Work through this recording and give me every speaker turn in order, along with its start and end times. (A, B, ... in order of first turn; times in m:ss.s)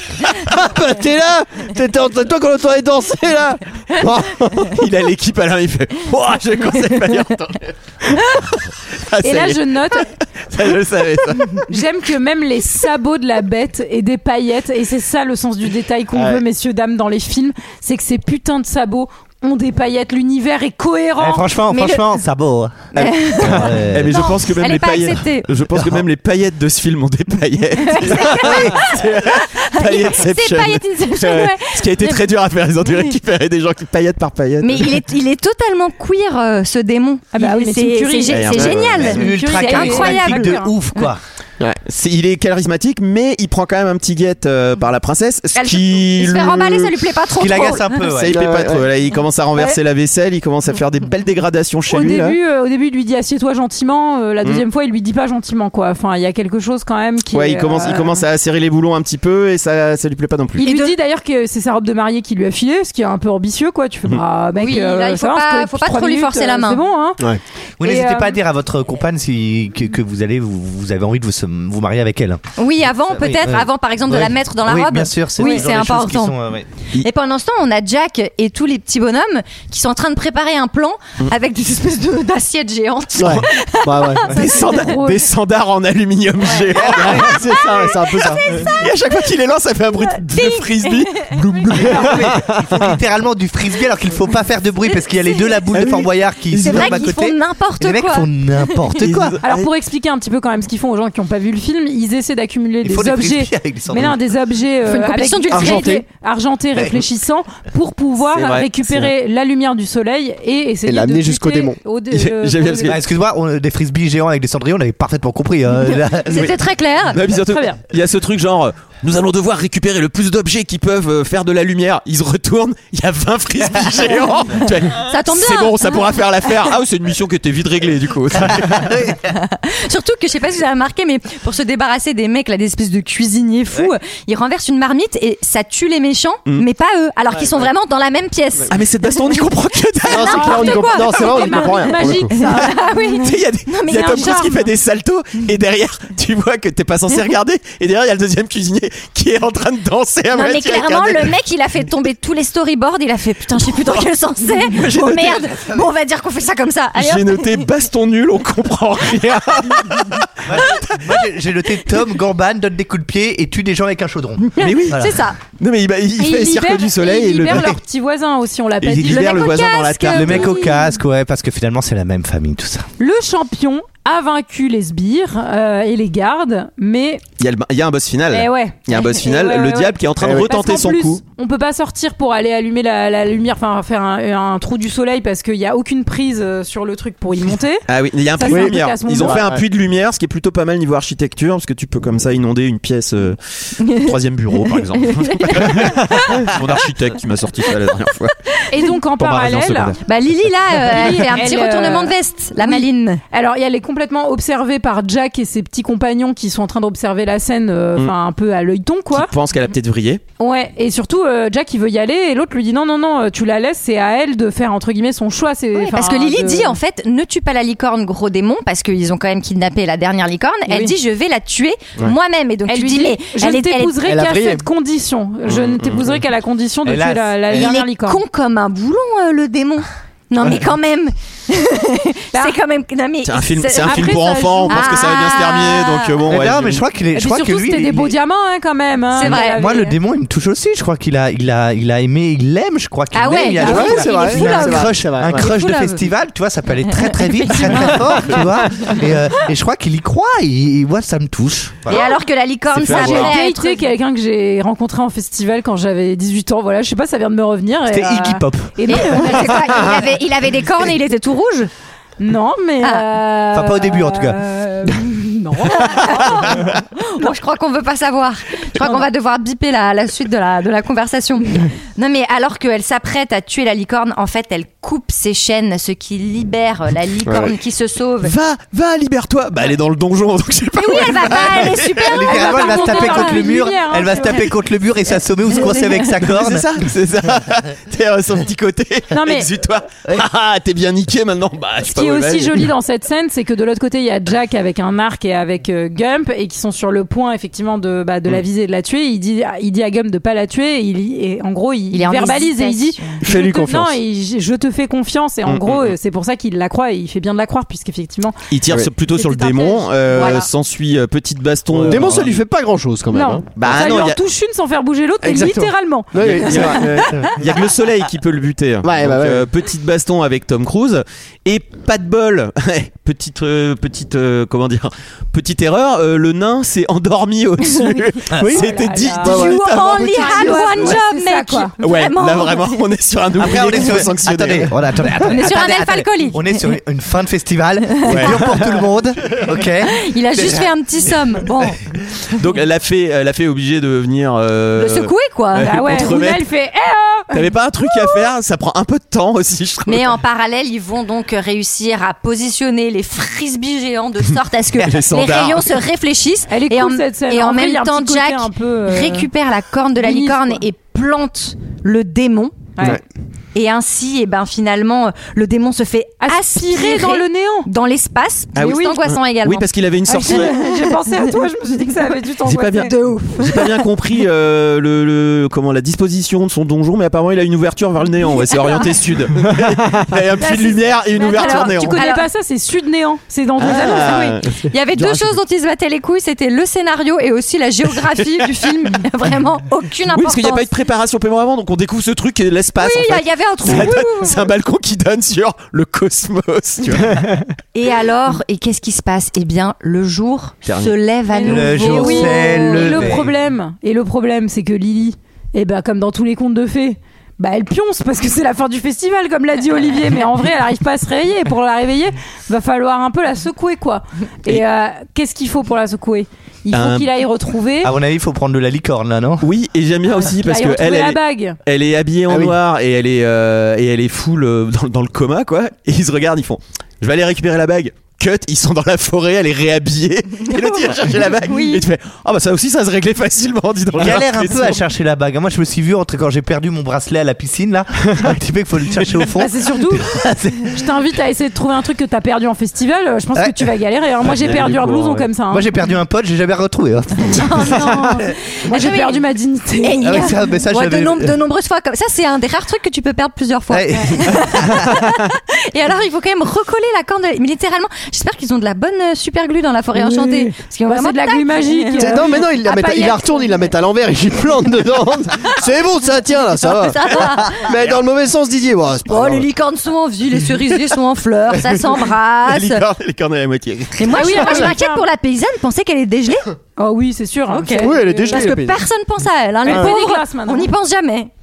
0:00.4-0:04.8 A
0:04.7-0:11.7 B
0:09.2-0:10.1 C
0:11.7-0:21.5 C
0:16.1-0:16.4 A
0:21.2-0:24.1 D
0:23.0-0:25.5 E
0:23.0-0:23.6 A
0:23.4-0:35.0 B
0:27.8-0:32.2 E
0:28.4-0:28.7 D
0:34.6-0:40.6 E
0:37.3-0:40.7 C
0:38.3-0:39.2 B
0:38.6-0:38.9 A
0:39.0-0:41.2 D
0:41.9-0:47.0 B
0:45.5-0:48.0 E
0:47.4-0:48.4 D
0:48.0-0:52.4 B
0:48.3-0:48.9 A
0:51.9-0:58.2 C
0:57.3-1:00.6 B
1:00.6-1:01.0 E
1:00.6-1:07.2 C
1:04.6-1:06.8 E
1:07.8-1:12.4 D
1:07.8-1:08.4 C
1:12.6-1:16.4 E
1:13.1-1:16.7 D
1:15.4-1:15.6 C
1:17.0-1:24.2 E
1:23.2-1:24.4 A
1:24.3-1:32.2 B
1:24.3-1:25.2 C
1:26.4-1:29.2 E
1:26.9-1:28.5 A
1:30.1-1:31.4 E
1:31.8-1:39.4 D
1:31.8-1:32.8 A
1:34.9-1:38.9 E
1:35.7-1:37.0 B
1:39.0-1:39.7 B
1:39.4-1:52.9 C
1:42.8-1:44.2 D
1:44.8-1:46.0 E
1:45.5-1:46.0 A
1:48.3-1:49.1 B
1:50.8-1:51.8 A
1:52.1-1:53.0 B
1:52.9-1:56.5 D
1:55.9-1:57.2 E
1:57.1-2:08.9 B
1:57.5-1:57.8 C
2:05.0-2:06.6 E
2:08.4-2:09.2 D
2:09.3-2:18.7 E
2:18.7-2:20.7 B
2:20.0-2:24.7 E
2:20.1-2:22.3 A
2:20.3-2:23.2 C
2:22.6-2:31.3 B
2:23.9-2:24.6 C
2:30.3-2:37.6 E
2:34.7-2:35.5 B
2:36.9-2:40.8 B
2:40.5-2:45.2 D
2:44.6-2:45.4 E
2:44.6-2:47.8 B
2:46.2-2:50.9 C
2:48.8-2:50.5 B
2:49.1-2:50.2 E
2:50.1-2:52.8 D
2:53.0-2:57.2 C
2:57.4-3:01.2 B
2:58.3-3:09.4 C
3:00.2-3:00.5 A
3:07.9-3:18.3 B
3:08.5-3:09.6 A
3:13.8-3:14.1 E
3:14.7-3:16.4 E
3:18.7-3:19.9 C
3:19.1-3:20.0 B
3:20.0-3:23.2 E
3:20.9-3:21.2 B
3:20.9-3:29.3 C
3:29.1-3:30.2 B
3:30.4-3:36.8 C
3:35.7-3:44.0 E
3:40.7-3:40.9 C
3:42.7-3:48.2 C
3:44.0-3:44.6 A
3:45.5-3:46.2 B
3:46.8-3:47.6 D
3:47.5-3:56.2 E
3:53.2-3:56.8 B
3:53.8-3:55.4 C
3:56.3-3:58.1 D
3:57.1-4:00.0 C
3:59.1-3:59.6 E
3:59.2-4:12.0 D
4:03.1-4:06.0 E
4:03.5-4:05.4 A
4:03.6-4:04.2 C
4:06.9-4:08.2 E
4:11.9-4:13.8 E
4:12.7-4:13.3 B
4:12.9-4:19.8 C
4:17.9-4:18.7 D
4:18.9-4:21.7 E
4:22.2-4:27.3 C
4:23.5-4:24.4 D
4:25.7-4:38.3 E
4:37.2-4:37.5 A
4:38.2-4:42.2 B
4:40.8-4:43.6 E
4:42.1-4:46.6 D
4:42.2-4:44.4 C
4:45.6-4:46.1 E
4:46.3-4:52.7 B
4:49.1-4:49.5 C
4:51.8-5:08.4 C
5:01.9-5:03.2 E
5:03.2-5:04.0 A
5:05.4-5:05.9 B
5:08.5-5:12.4 B
5:09.1-5:10.4 C
5:10.1-5:10.4 E
5:11.7-5:12.2 D
5:11.9-5:13.6 A
5:13.1-5:17.2 C
5:13.6-5:14.2 B
5:15.2-5:17.5 A
5:16.2-5:30.4 B
5:18.8-5:19.5 A
5:28.4-5:28.6 A
5:28.5-5:29.6 C
5:29.2-5:31.0 A
5:29.2-5:32.8 E
5:30.1-5:31.7 C
5:31.8-5:34.7 B
5:33.4-5:40.7 D
5:35.2-5:36.8 E
5:37.9-5:38.4 E
5:38.1-5:38.4 B
5:39.9-5:41.8 E
5:42.4-5:46.4 B
5:44.8-5:46.1 E
5:45.6-5:48.2 C
5:47.3-5:50.1 B
5:49.9-6:02.7 E
5:54.8-5:55.7 B
5:56.5-5:59.3 C
6:00.0-6:00.6 C
6:03.5-6:10.9 E
6:06.2-6:07.7 C
6:08.5-6:10.6 B
6:08.6-6:08.9 C
6:10.1-6:12.9 C
6:12.4-6:22.0 B
6:13.0-6:13.8 E
6:18.4-6:18.9 E
6:20.4-6:24.2 C
6:21.3-6:22.2 E
6:23.6-6:25.2 B
6:23.6-6:30.7 E
6:30.1-6:37.2 B
6:32.8-6:34.4 E
6:37.7-6:43.2 E
6:40.6-6:40.9 B
6:41.3-6:57.9 C
6:41.4-6:43.3 D
6:56.7-6:57.1 B
6:57.8-6:59.5 D
6:59.4-7:14.8 B
7:00.2-7:01.6 C
7:02.3-7:02.6 A
7:11.4-7:11.8 C
7:13.9-7:20.8 D
7:19.4-7:20.0 C
7:20.7-7:25.7 C
7:23.3-7:23.6 D
7:24.4-7:25.2 B
7:24.6-7:28.2 D
7:27.4-7:29.2 E
7:28.7-7:30.3 C
7:29.8-7:42.4 E
7:30.0-7:31.4 D
7:33.7-7:34.9 D
7:39.9-7:43.5 C
7:42.0-7:49.4 A
7:46.6-7:47.7 E
7:49.1-7:52.8 E
7:52.4-7:54.4 B
7:54.0-7:56.4 E
7:54.1-7:55.0 C
7:56.8-7:58.5 C
7:57.5-8:01.3 E
7:57.8-7:58.8 A
7:59.6-8:00.7 C
7:59.7-7:59.9 A